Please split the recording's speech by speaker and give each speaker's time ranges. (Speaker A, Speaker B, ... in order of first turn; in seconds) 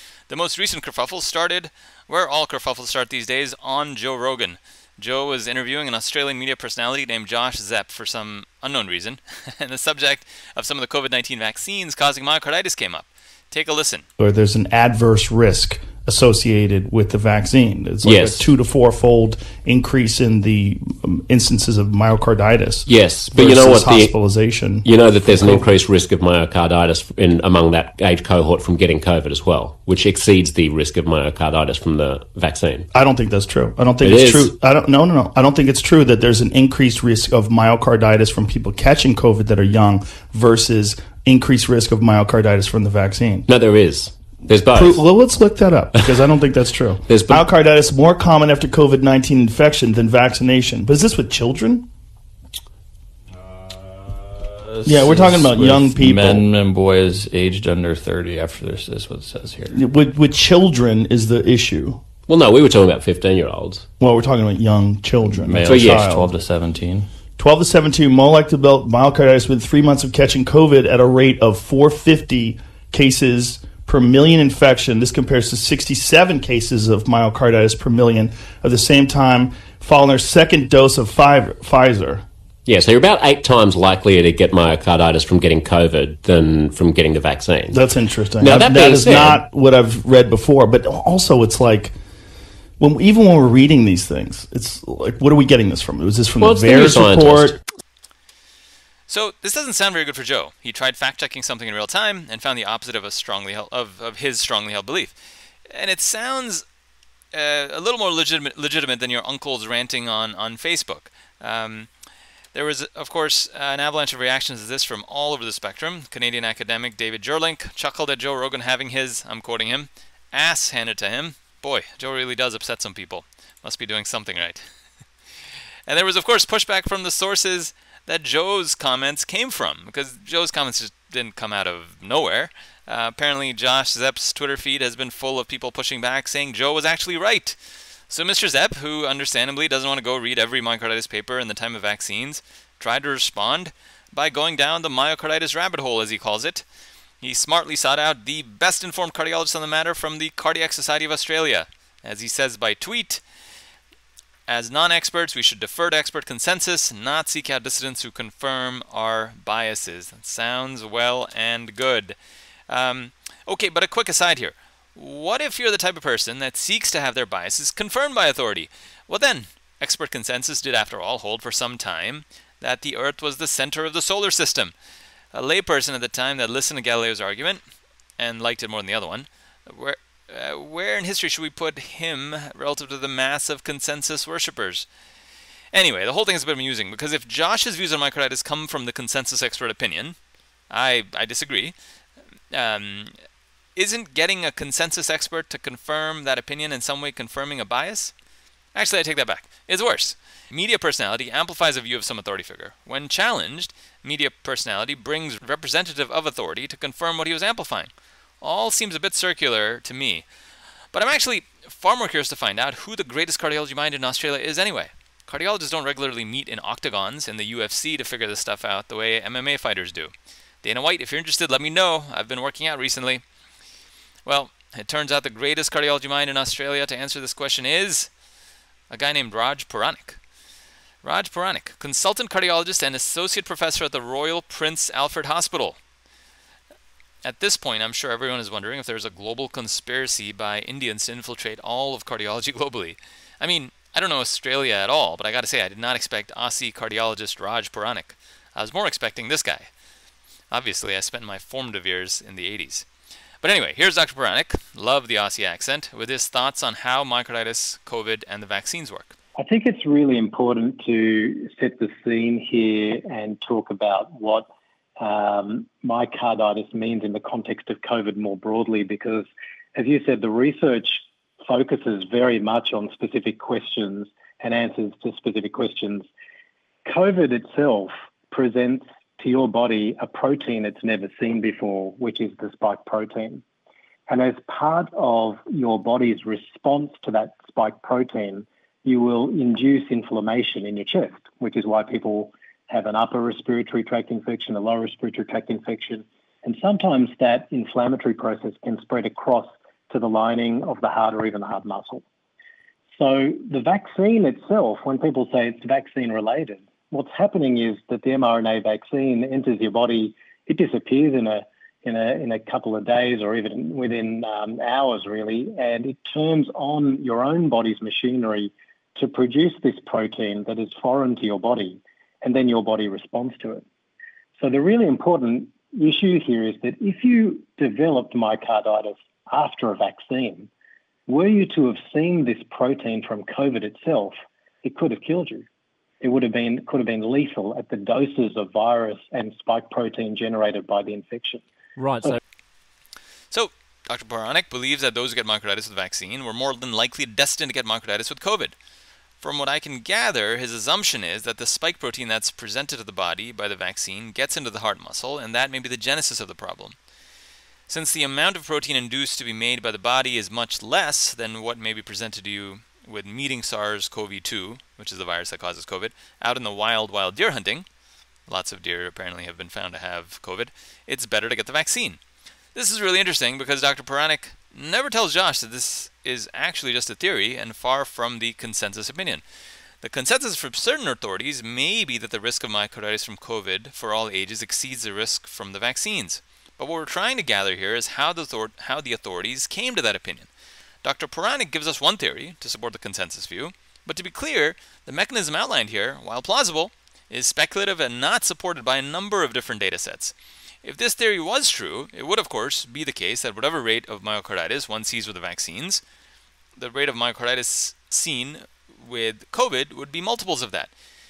Speaker A: 0.3-14.1, 99.1-105.2, 105.7-106.6, 107.3-111.9, 112.5-124.6, 125.9-137.6, 138.1-146.6, 147.2-153.2, 154.5-162.2, 162.7-174.7, 175.3-177.6, 178.2-184.9, 185.7-190.2, 190.7-191.7, 192.5-193.2, 193.8-198.1, 198.7-210.2, 210.9-223.2, 224.2-228.1, 228.9-230.2, 231.0-235.8, 237.2-249.7, 250.5-252.9, 253.4-259.1, 343.3-348.5, 349.2-356.8, 357.7-367.7, 368.3-372.0, 372.5-379.2, 379.8-390.3, 390.8-405.8, 406.6-410.7
Speaker B: 14.2-25.7, 32.9-43.5, 44.7-51.9, 54.9-56.5, 59.7-62.0, 64.0-66.3, 67.4-82.2, 87.7-91.9, 92.8-97.6
Speaker C: 18.0-18.5, 22.9-24.1, 24.8-32.9, 34.0-34.5, 43.5-45.0, 47.1-47.4, 62.3-63.9, 65.6-66.0, 82.7-87.8, 88.4-89.4, 96.4-97.6, 341.8-342.2
Speaker D: 53.6-59.8, 65.2-67.1
Speaker E: 259.4-276.1, 276.8-283.4, 284.1-302.0, 302.9-323.6, 324.4-330.5, 331.1-335.4, 336.0-341.4